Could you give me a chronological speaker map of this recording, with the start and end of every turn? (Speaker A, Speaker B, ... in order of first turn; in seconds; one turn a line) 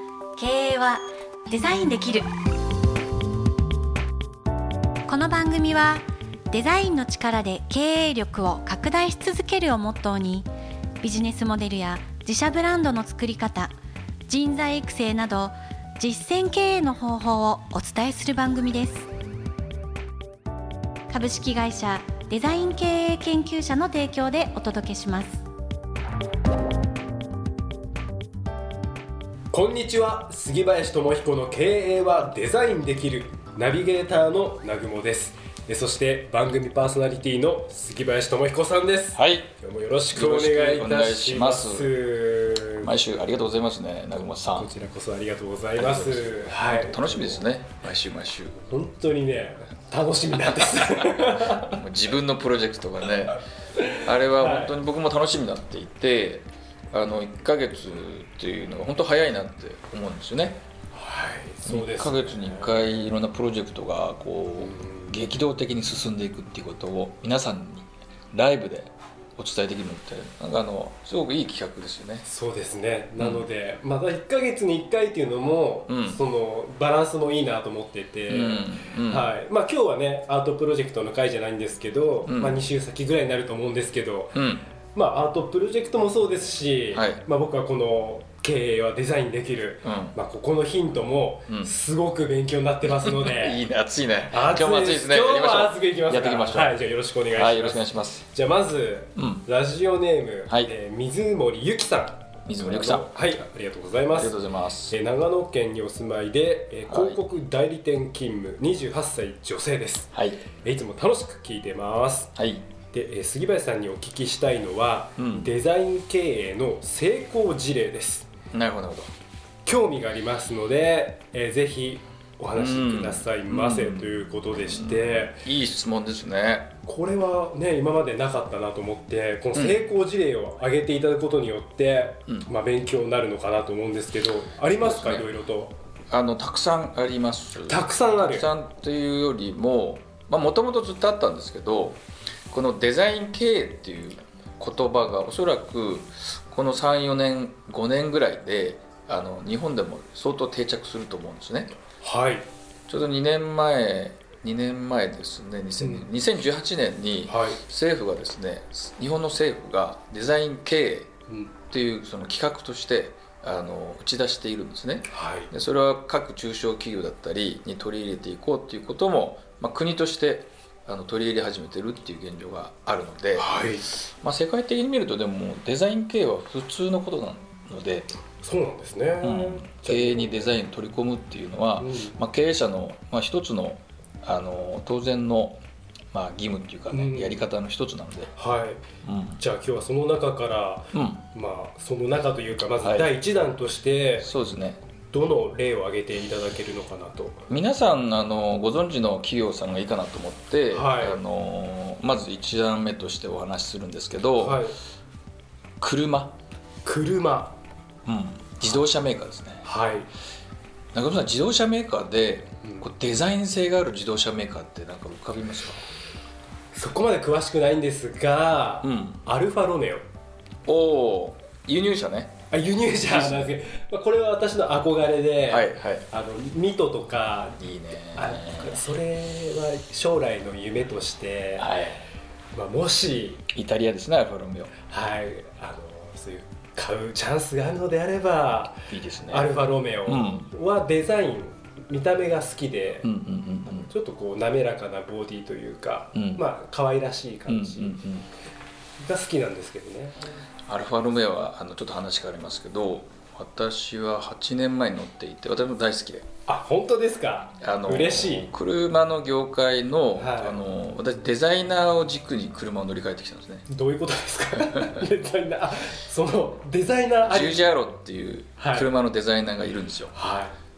Speaker A: 0.3-2.3
Speaker A: 5.1-10.5
Speaker A: 11.0-13.7
Speaker A: 14.3-19.1
Speaker A: 21.1-25.4
Speaker B: 29.5-42.9
Speaker C: 39.1-39.5
Speaker C: 40.1-41.9
Speaker C: 42.8-44.7
Speaker B: 44.5-47.5
Speaker C: 45.7-48.6
Speaker B: 48.7-51.8
Speaker C: 51.4-60.6
Speaker B: 53.8-54.8
Speaker B: 60.9-63.0
Speaker C: 61.6-72.2
Speaker B: 64.6-65.2
Speaker B: 72.2-84.4
Speaker C: 73.2-73.5
Speaker C: 75.9-76.2
Speaker C: 78.3-79.3
Speaker C: 82.2-82.6
Speaker C: 84.3-84.7
Speaker B: 84.9-93.6
Speaker C: 86.9-87.2
Speaker C: 89.8-90.2
Speaker C: 91.5-91.7
Speaker C: 92.8-98.2
Speaker B: 94.3-112.3
Speaker C: 99.2-99.4
Speaker C: 102.5-103.1
Speaker C: 104.1-105.0
Speaker C: 106.9-107.2
Speaker C: 110.1-110.4
Speaker C: 112.3-112.7
Speaker B: 112.9-118.3
Speaker C: 115.2-115.5
Speaker C: 118.5-119.1
Speaker B: 119.6-125.4
Speaker C: 122.5-126.7
Speaker B: 126.8-135.8
Speaker C: 129.5-129.8
Speaker C: 134.8-135.3
Speaker C: 136.1-142.0
Speaker B: 137.7-138.5
Speaker C: 142.5-151.7
Speaker B: 152.0-152.5
Speaker C: 152.9-161.1
Speaker B: 155.8-156.1
Speaker B: 157.2-157.6
Speaker B: 161.3-161.5
Speaker C: 161.7-173.5
Speaker B: 165.1-165.5
Speaker B: 173.3-173.9
Speaker C: 174.2-178.1
Speaker B: 178.4-180.6
Speaker C: 179.2-188.3
Speaker B: 181.8-182.2
Speaker B: 186.9-187.4
Speaker B: 188.3-188.8
Speaker C: 189.0-189.4
Speaker B: 189.4-194.3
Speaker C: 190.9-191.2
Speaker C: 192.8-193.1
Speaker C: 194.2-194.8
Speaker B: 195.1-197.4
Speaker C: 197.5-204.7
Speaker B: 200.7-201.2
Speaker B: 204.4-204.8
Speaker C: 205.8-206.4
Speaker B: 206.8-207.6
Speaker C: 208.1-209.6
Speaker B: 209.6-210.1
Speaker C: 210.9-215.8
Speaker B: 216.7-220.0
Speaker C: 218.8-219.2
Speaker C: 220.7-222.3
Speaker B: 222.5-231.8
Speaker C: 223.0-223.5
Speaker C: 225.5-226.1
Speaker C: 227.6-228.8
Speaker C: 231.6-232.1
Speaker B: 232.5-233.4
Speaker C: 233.5-234.7
Speaker B: 234.8-243.1
Speaker C: 238.9-240.5
Speaker C: 243.0-243.9
Speaker B: 243.7-248.0
Speaker C: 246.1-246.4
Speaker C: 247.5-248.3
Speaker B: 249.0-250.3
Speaker C: 250.7-256.3
Speaker B: 256.5-258.5
Speaker C: 257.6-263.6
Speaker B: 260.1-260.6
Speaker B: 263.7-267.6
Speaker C: 264.7-265.0
Speaker C: 267.2-270.1
Speaker B: 268.6-268.9
Speaker B: 270.1-270.6